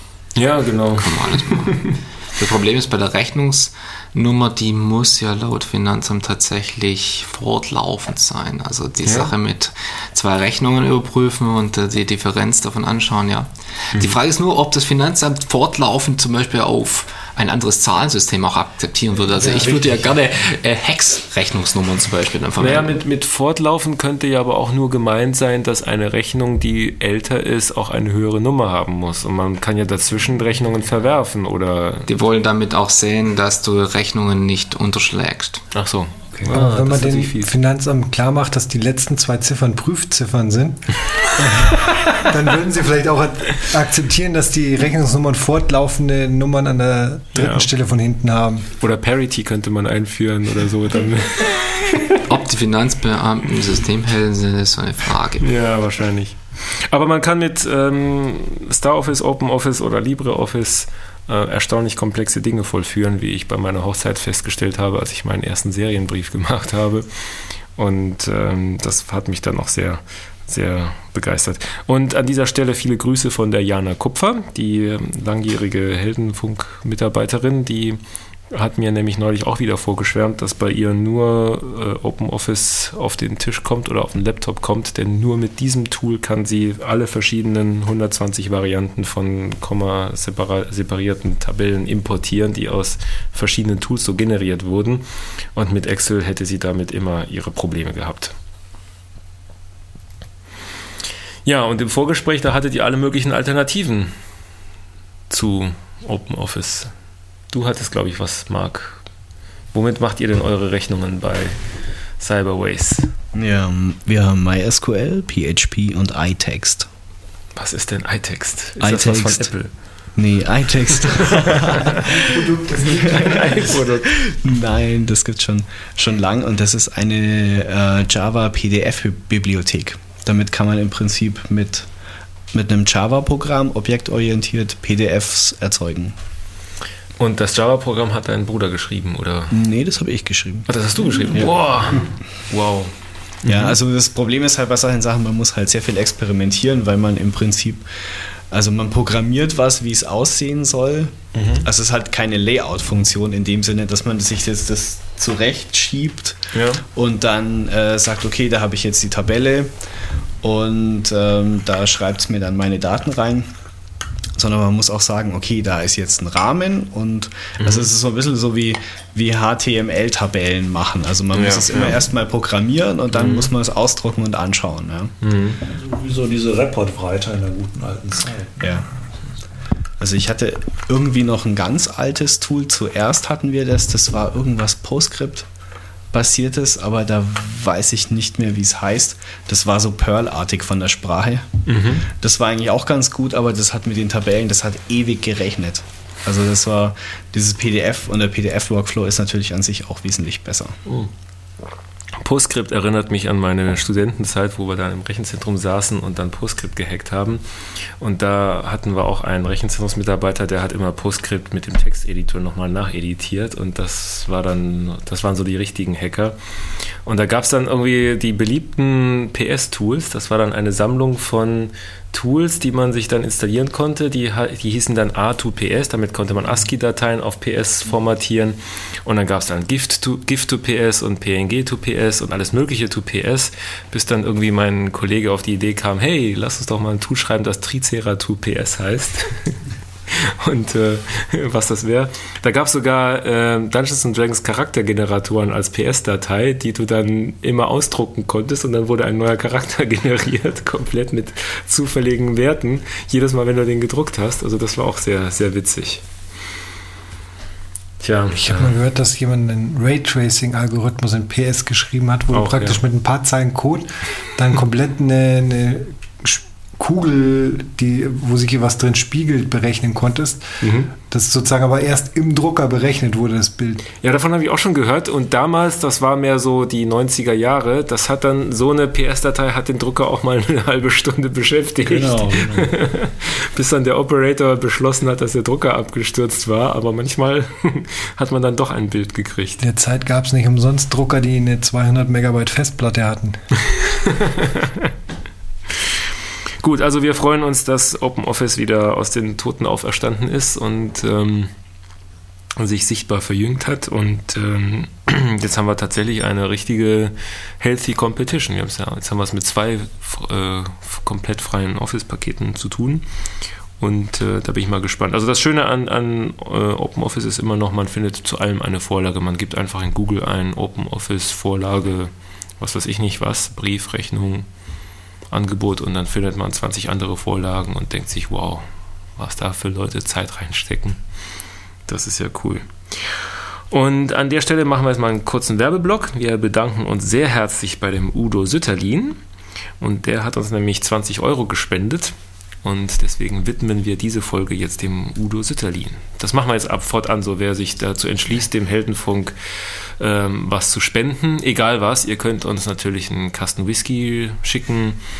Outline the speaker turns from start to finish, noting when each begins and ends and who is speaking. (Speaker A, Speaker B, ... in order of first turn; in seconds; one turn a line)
Speaker A: 0.3-2.0
Speaker B: 1.0-23.0
Speaker A: 9.1-9.3
Speaker C: 19.3-20.2
Speaker A: 22.6-32.1
Speaker B: 32.1-35.6
Speaker A: 35.7-37.5
Speaker D: 36.4-48.7
Speaker A: 47.3-47.7
Speaker A: 48.8-52.2
Speaker B: 52.2-55.4
Speaker A: 55.4-67.0
Speaker A: 67.8-78.0
Speaker A: 78.5-98.3
Speaker A: 101.4-104.1
Speaker A: 105.3-106.9
Speaker A: 107.5-109.0
Speaker A: 109.7-111.6
Speaker A: 112.2-113.1
Speaker E: 113.3-116.9
Speaker A: 117.5-119.7
Speaker E: 118.8-119.5
Speaker E: 120.2-121.9
Speaker A: 121.1-122.0
Speaker D: 121.9-123.8
Speaker E: 122.8-123.6
Speaker A: 122.8-124.2
Speaker E: 124.2-131.9
Speaker E: 132.5-136.2
Speaker A: 137.2-139.5
Speaker E: 139.5-142.0
Speaker A: 140.7-142.9
Speaker A: 143.4-143.8
Speaker E: 143.5-147.9
Speaker E: 148.5-156.4
Speaker A: 151.3-151.7
Speaker A: 156.5-156.8
Speaker E: 156.9-159.7
Speaker E: 160.4-163.5
Speaker E: 164.3-175.1
Speaker A: 167.6-167.9
Speaker A: 171.3-172.1
Speaker A: 173.1-173.5
Speaker A: 175.2-175.6
Speaker C: 175.6-179.3
Speaker E: 180.0-185.5
Speaker E: 186.1-191.5
Speaker A: 191.7-192.0
Speaker E: 192.2-200.7
Speaker A: 202.2-207.4
Speaker A: 208.0-216.4
Speaker A: 217.0-256.0
Speaker A: 258.0-258.7
Speaker D: 258.4-270.4
Speaker A: 262.3-262.8
Speaker A: 270.6-270.9
Speaker D: 271.0-273.8
Speaker A: 274.0-289.6
Speaker C: 281.8-282.7
Speaker D: 289.6-293.4
Speaker A: 294.1-294.9
Speaker A: 296.6-301.5
Speaker A: 302.6-313.0
Speaker A: 313.8-324.5
Speaker A: 325.3-328.6
Speaker A: 329.2-331.0
Speaker A: 331.9-333.1
Speaker A: 333.7-339.2
Speaker A: 339.8-349.3
Speaker A: 350.0-355.0